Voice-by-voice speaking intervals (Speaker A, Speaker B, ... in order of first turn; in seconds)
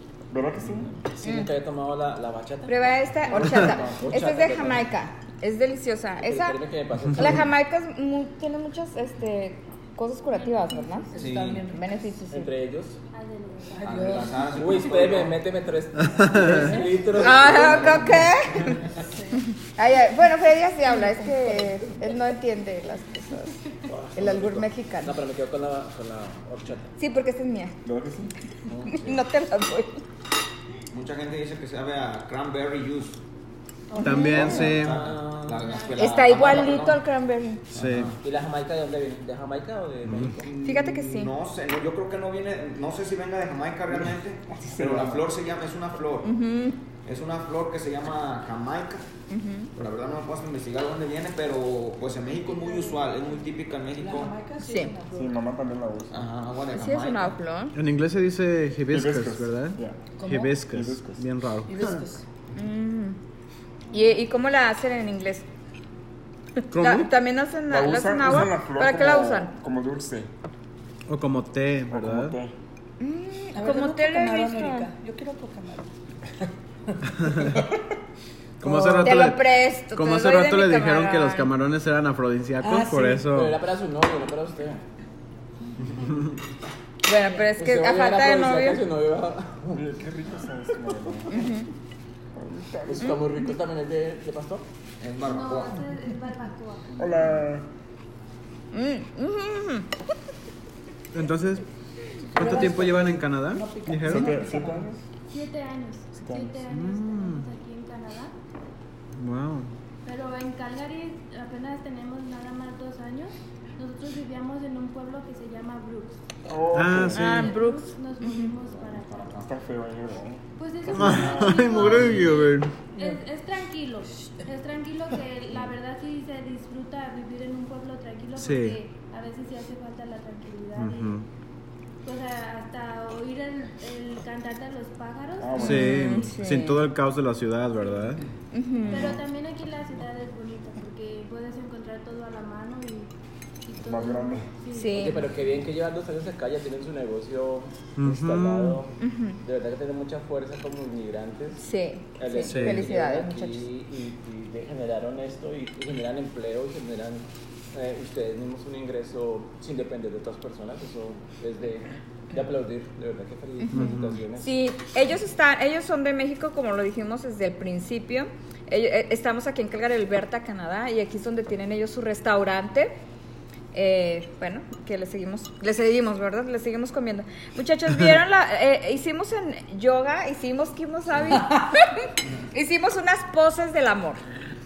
Speaker A: 0.3-0.9, 27.8-28.3, 43.9-45.3, 55.1-56.3, 58.9-60.1, 60.7-61.2, 67.7-70.3, 71.9-72.5, 89.7-91.4, 92.3-93.2, 97.0-97.7, 104.0-105.0, 106.2-106.6, 116.5-117.5, 118.9-122.2, 135.4-136.2, 138.9-139.2, 143.8-144.5
Speaker B: 0.6-4.9, 6.2-7.5, 12.3-13.0, 14.5-18.2, 23.9-26.9, 28.7-29.2, 34.4-36.8, 38.1-40.5, 83.3-84.8, 87.5-89.9, 92.9-94.7, 144.9-151.6, 152.2-164.5
Speaker C: 1.2-1.5, 2.7-6.6, 7.2-11.1, 11.7-12.5, 17.2-18.8, 19.6-23.6, 24.1-25.1, 27.0-27.7, 28.9-30.0, 34.0-34.6, 36.0-37.7, 40.6-41.3, 46.2-46.8, 49.3-49.7, 54.6-54.9, 56.7-57.8, 62.5-63.2, 63.9-65.5, 66.7-69.5, 73.0-74.9, 79.0-81.5, 87.0-88.8, 91.3-91.7, 98.7-99.9, 117.1-118.5, 135.6-136.9, 138.5-139.2, 144.7-145.2, 149.0-149.4, 151.6-153.6, 163.6-172.9, 173.7-184.2
Speaker D: 10.3-11.3, 13.1-14.3, 35.6-36.0, 95.2-97.1, 105.3-108.3, 110.0-116.2, 117.2-119.5, 120.6-131.2, 132.0-136.0, 138.9-143.1, 143.7-145.3
Speaker E: 11.1-12.1, 13.7-15.0, 16.3-17.1, 20.9-22.0, 52.5-53.0, 54.0-55.4, 60.2-60.6, 61.7-62.2, 73.5-75.9, 78.6-79.2, 82.6-83.3, 102.3-104.9, 122.9-123.2, 181.3-181.7
Speaker F: 11.2-11.7, 13.8-15.4, 17.1-18.8, 30.9-33.2, 34.2-37.0, 37.7-38.2, 40.4-46.3, 47.0-49.1, 49.8-54.4, 56.1-57.4, 95.0-95.8
Speaker G: 16.0-16.6, 34.0-35.0, 37.7-38.1, 40.1-40.3, 57.8-62.0, 66.7-67.1, 71.1-72.3, 78.6-83.6, 101.1-101.6, 102.3-104.4, 106.7-107.4, 109.2-109.7, 116.7-117.5, 120.9-122.8, 128.4-128.8, 130.8-131.2, 135.6-138.2, 148.0-148.8, 152.4-152.8, 163.7-164.2